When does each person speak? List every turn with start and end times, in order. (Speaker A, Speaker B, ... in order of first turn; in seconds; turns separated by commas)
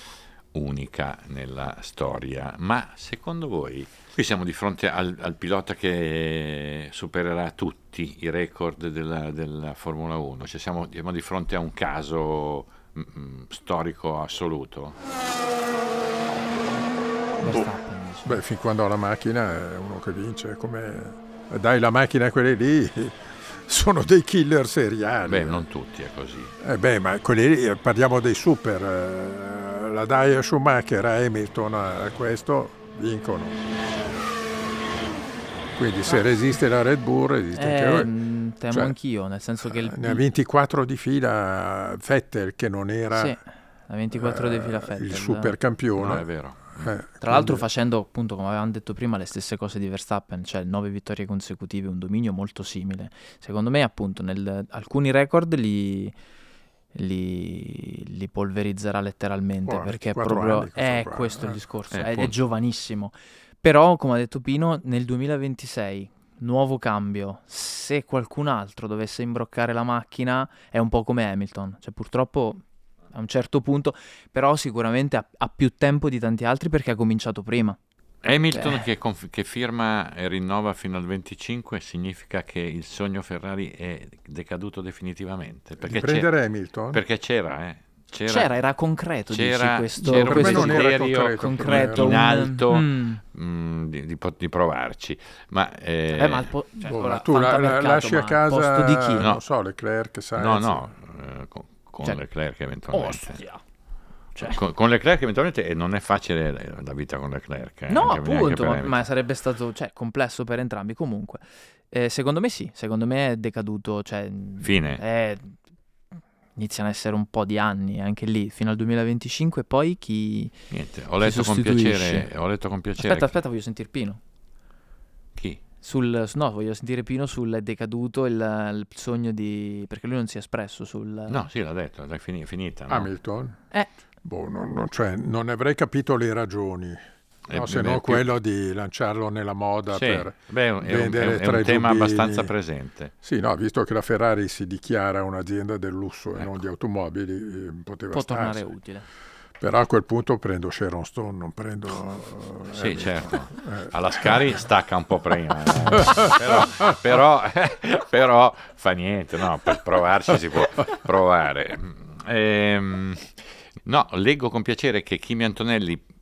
Speaker A: 0.5-15.0, Speaker B: 17.4-17.7, Speaker C: 17.4-18.4, Speaker B: 18.2-25.6, Speaker A: 25.2-26.5, Speaker B: 26.6-33.7, Speaker B: 35.8-38.1, Speaker C: 37.5-40.2, Speaker B: 38.7-39.0, Speaker B: 39.6-43.4, Speaker C: 43.1-45.5, Speaker B: 44.1-47.6, Speaker A: 46.0-46.9, Speaker C: 47.2-56.1, Speaker C: 56.9-72.6, Speaker B: 59.6-61.6, Speaker A: 61.9-62.3, Speaker C: 73.1-77.8, Speaker A: 78.2-86.3, Speaker C: 78.5-78.8, Speaker B: 85.8-87.0, Speaker A: 86.9-88.5, Speaker C: 88.2-93.2, Speaker A: 89.3-96.5, Speaker B: 90.0-92.2, Speaker C: 96.2-99.3, Speaker B: 96.8-100.9, Speaker A: 100.3-103.4, Speaker C: 102.9-103.6, Speaker A: 104.3-109.0, Speaker C: 107.9-115.5, Speaker A: 114.6-115.0, Speaker C: 116.6-120.5, Speaker A: 120.7-123.4, Speaker C: 121.2-122.3, Speaker C: 123.0-124.2, Speaker C: 125.8-131.4, Speaker A: 131.3-133.1, Speaker B: 132.9-133.6, Speaker B: 134.2-137.0, Speaker A: 137.5-138.3, Speaker B: 137.5-142.5, Speaker A: 139.9-143.1, Speaker B: 143.2-148.6, Speaker C: 148.1-149.1, Speaker B: 149.6-153.9, Speaker A: 152.7-163.3, Speaker B: 156.0-156.3, Speaker A: 163.8-166.0